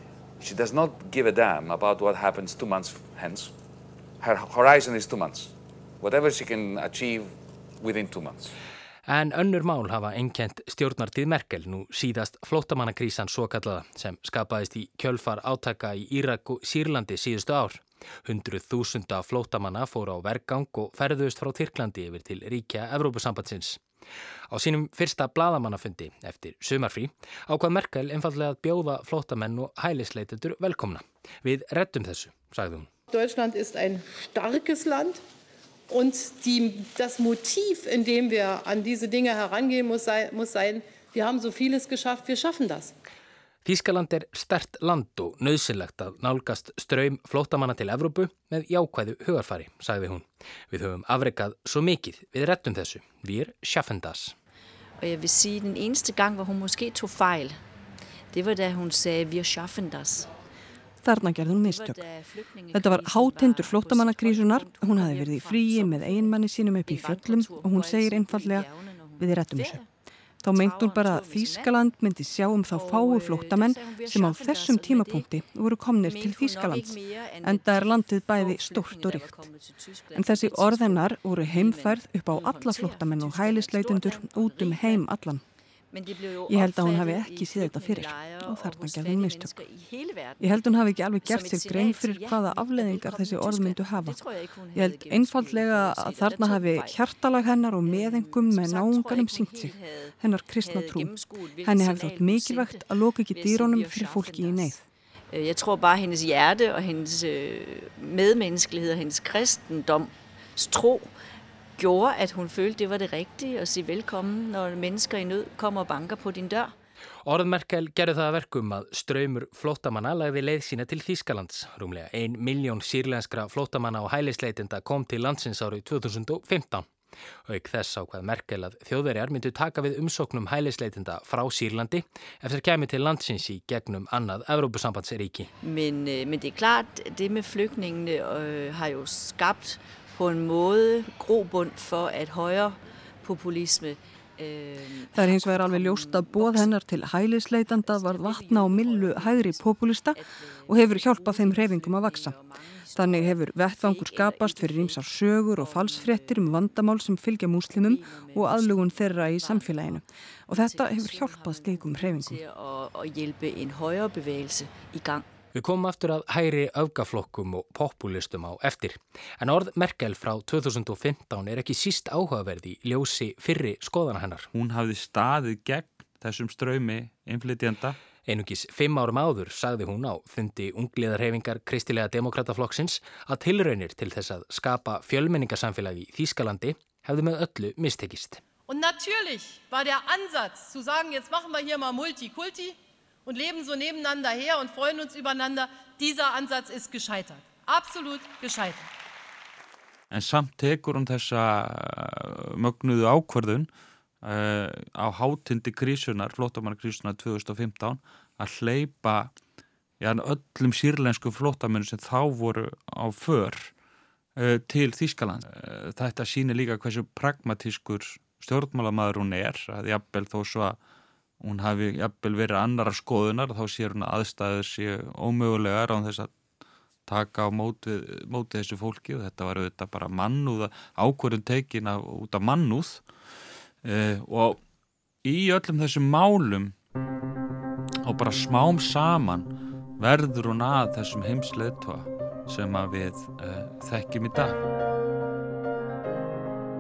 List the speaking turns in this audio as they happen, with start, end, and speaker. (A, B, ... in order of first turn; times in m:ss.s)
0:00.4-0:03.5 A
0:04.2-0:08.5 A
0:09.1-0:23.8 B
0:24.5-0:32.9 B
0:33.1-0:35.2 C
0:35.9-0:42.9 C
0:43.6-0:54.4 B
0:55.0-0:57.6 D
0:58.3-1:00.3 D
1:01.0-1:02.0 E
1:01.6-1:09.9 D
1:02.7-1:08.7 E
1:09.2-1:09.8 E
1:10.4-1:19.5 E
1:10.5-1:11.8 D
1:12.7-1:15.4 D
1:16.0-1:25.1 D
1:20.2-1:25.4 E
1:25.9-1:37.1 D
1:26.5-1:29.6 E
1:30.4-1:34.2 E
1:34.8-1:41.1 E
1:37.8-1:51.1 D
1:41.6-1:44.8 E
1:51.8-1:56.7 D
1:57.2-2:06.9 B
2:07.5-2:15.5 B
2:15.6-2:26.8 D
2:25.2-2:32.4 E
2:27.7-2:37.0 D
2:33.0-2:42.4 E
2:37.7-2:45.3 D
2:45.5-2:54.5 B
2:54.5-2:58.0 F
2:58.3-3:08.4 B
3:08.7-3:18.9 C
3:20.1-3:23.7 F
3:24.2-3:29.3 F
3:30.0-3:33.7 F
3:34.4-3:40.8 F
3:41.4-3:46.3 F
3:47.1-3:54.6 F
3:55.2-3:56.8 F
3:58.0-4:04.6 F